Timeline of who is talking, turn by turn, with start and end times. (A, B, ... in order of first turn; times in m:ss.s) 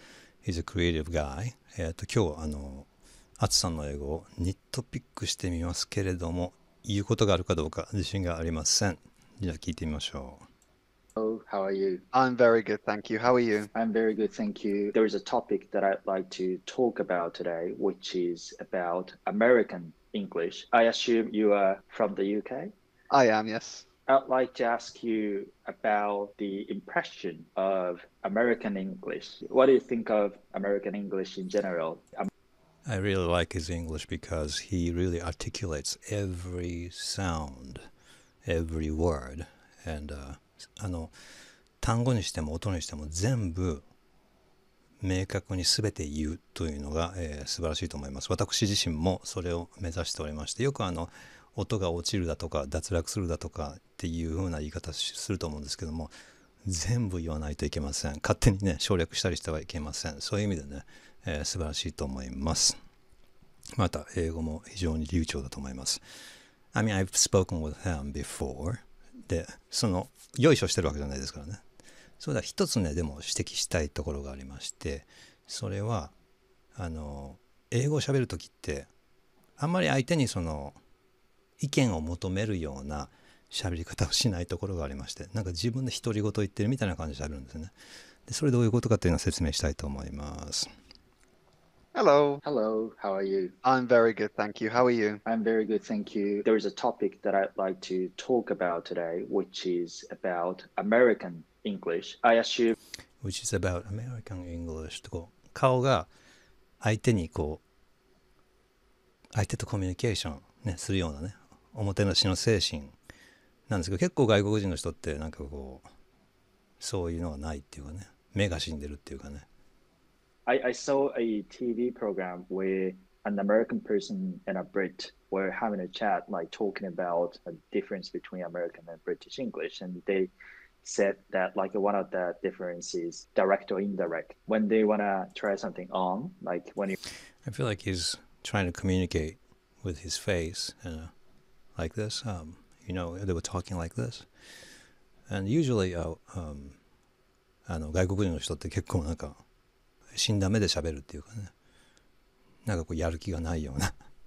0:00.4-0:02.9 A
0:03.4-0:10.4 A
0:11.2-0:12.0 B
0:12.1-0:13.7 C
0:13.7-0:22.7 B
0:23.1-0:23.8 C
0:24.1-0:32.3 B
0:32.8-0:37.8 A
0:38.4-0:41.1 A
0:41.8-0:43.8 A
0:45.0-0:56.1 A
0:56.6-1:02.7 A
1:03.8-1:06.0 A
1:06.7-1:11.6 A
1:12.2-1:16.1 A
1:16.7-1:18.9 A
1:19.6-1:20.8 A
1:21.6-1:27.7 A
1:28.3-1:30.7 A
1:31.9-1:32.4 C
1:32.4-1:33.5 B
1:33.6-1:35.2 C
1:35.2-1:42.7 B
1:43.2-1:46.1 A
1:46.8-1:47.6 A
1:49.3-1:52.9 A
1:53.7-1:55.9 A
1:56.8-1:59.4 A
2:00.4-2:17.0 B
2:17.4-2:21.1 A
2:21.8-2:24.3 A
2:25.3-2:26.8 A
2:27.6-2:29.4 A
2:30.2-2:31.5 A
2:32.6-2:33.9 A